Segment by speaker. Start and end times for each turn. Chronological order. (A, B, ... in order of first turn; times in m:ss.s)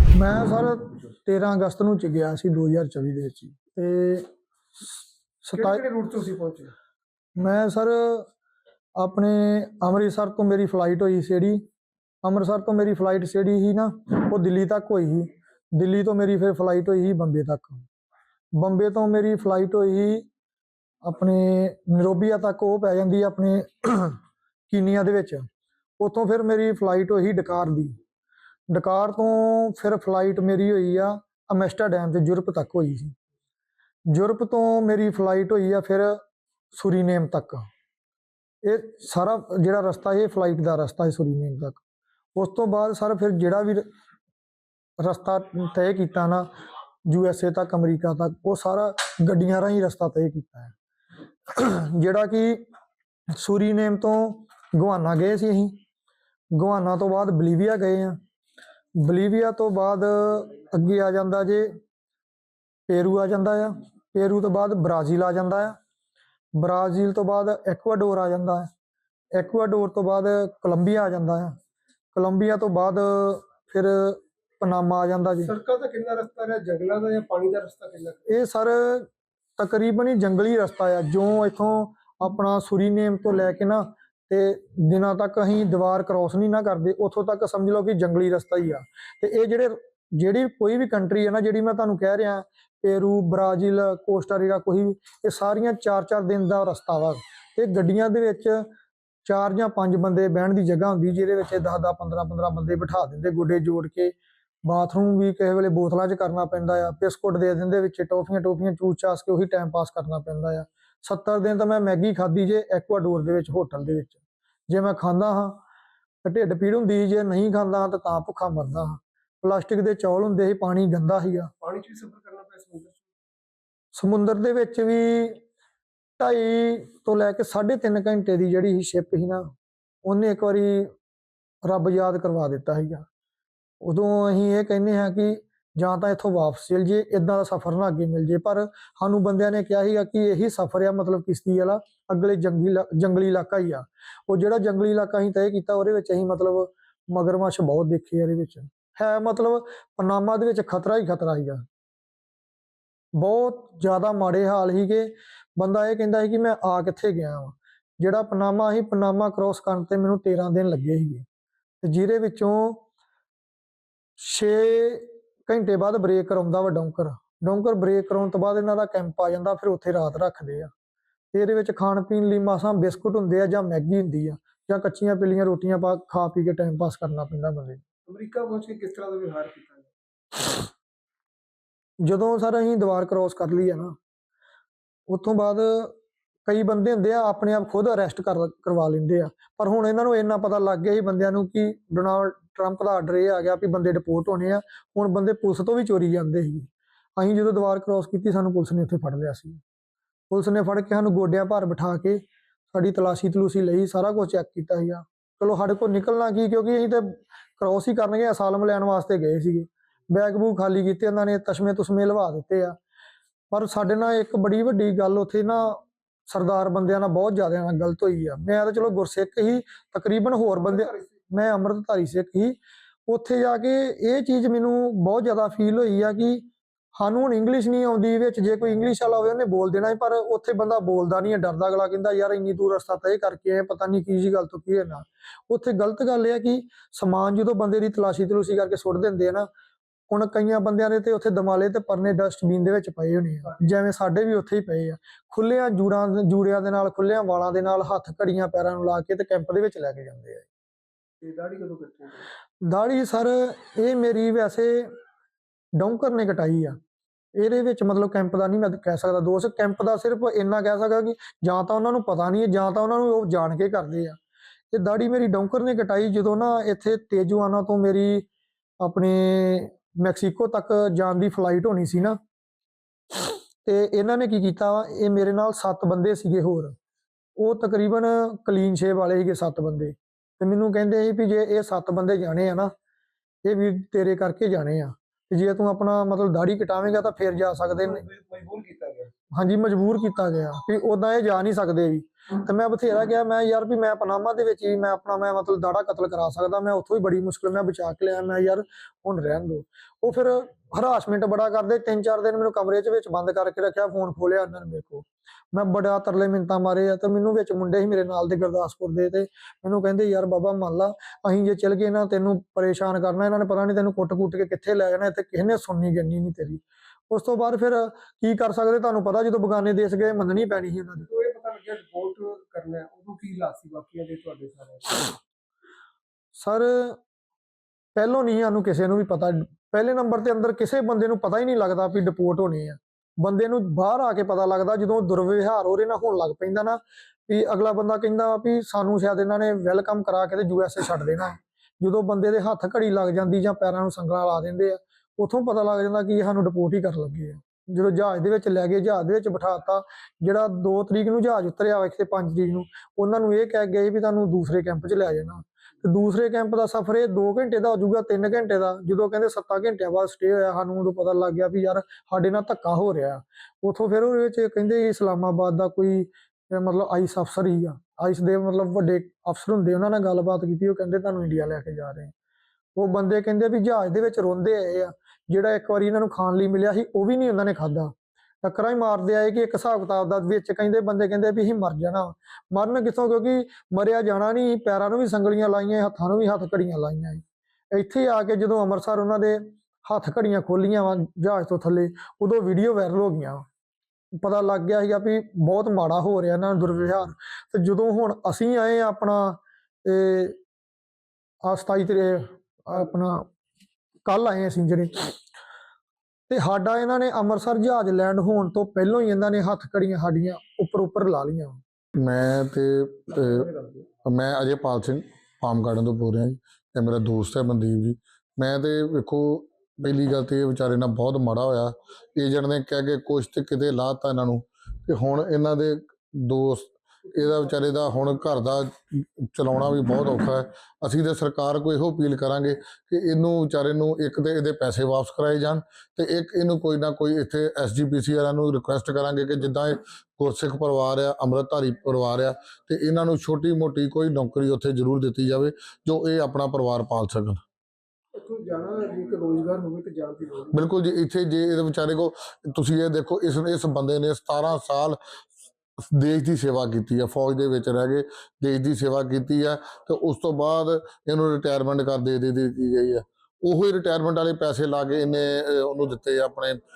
0:00.2-0:04.2 A
0:05.4-0:05.8 A
0:05.5-0:06.7 B
0:07.4-0:08.3 A
0:09.0-0:11.6 A
0:12.2-0:17.9 A
0:18.6-0:20.3 A
0:21.0-0:24.2 A
0:24.7-0:25.4 A
0:26.0-0:27.9 A
0:28.7-0:33.2 A
0:34.1-0:36.2 A
0:36.7-0:37.6 A
0:38.6-0:41.8 A
0:42.4-0:43.8 A
0:45.0-0:46.5 A
0:47.1-0:50.7 A
0:51.6-0:52.6 A
0:53.4-0:55.7 A
0:56.6-0:58.2 A
0:59.0-1:01.7 A
1:02.9-1:05.8 A
1:06.6-1:08.7 A
1:09.3-1:11.6 A
1:12.1-1:15.5 A
1:15.4-1:18.3 B
1:18.3-1:38.7 A
1:39.2-1:44.1 A
1:44.7-1:55.6 A
1:56.2-2:01.5 A
2:01.6-2:03.1 B
2:04.0-2:05.4 A
2:06.2-2:09.5 A
2:10.0-2:10.9 A
2:11.6-2:13.0 A
2:13.8-2:31.6 A
2:33.2-2:41.3 A
2:41.8-2:42.8 A
2:44.2-2:50.7 A
2:51.3-2:57.8 A
2:58.0-2:59.9 B
3:02.0-3:04.0 A
3:05.1-3:05.9 A
3:06.5-3:19.6 A
3:20.3-3:22.2 A
3:22.7-3:32.8 A
3:33.5-3:46.4 A
3:47.0-3:59.5 A
4:00.1-4:10.5 A
4:11.2-4:12.3 B
4:12.6-4:14.9 A
4:15.8-4:16.8 A
4:17.4-4:24.2 A
4:24.7-4:28.3 A
4:28.8-4:32.2 A
4:33.6-4:36.8 A
4:37.4-4:42.7 A
4:43.4-4:48.0 A
4:47.9-4:49.1 B
4:49.3-5:21.1 A
5:21.0-5:25.2 B
5:26.4-5:27.0 A
5:28.0-6:12.1 A
6:12.8-6:17.9 A
6:18.4-6:33.4 A
6:34.2-6:40.4 A
6:41.4-6:43.3 A
6:44.1-6:45.1 A
6:46.3-6:51.6 A
6:52.0-6:53.5 C
6:54.0-7:27.4 C
7:28.1-7:30.6 B
7:30.5-7:35.0 C
7:35.9-7:46.6 C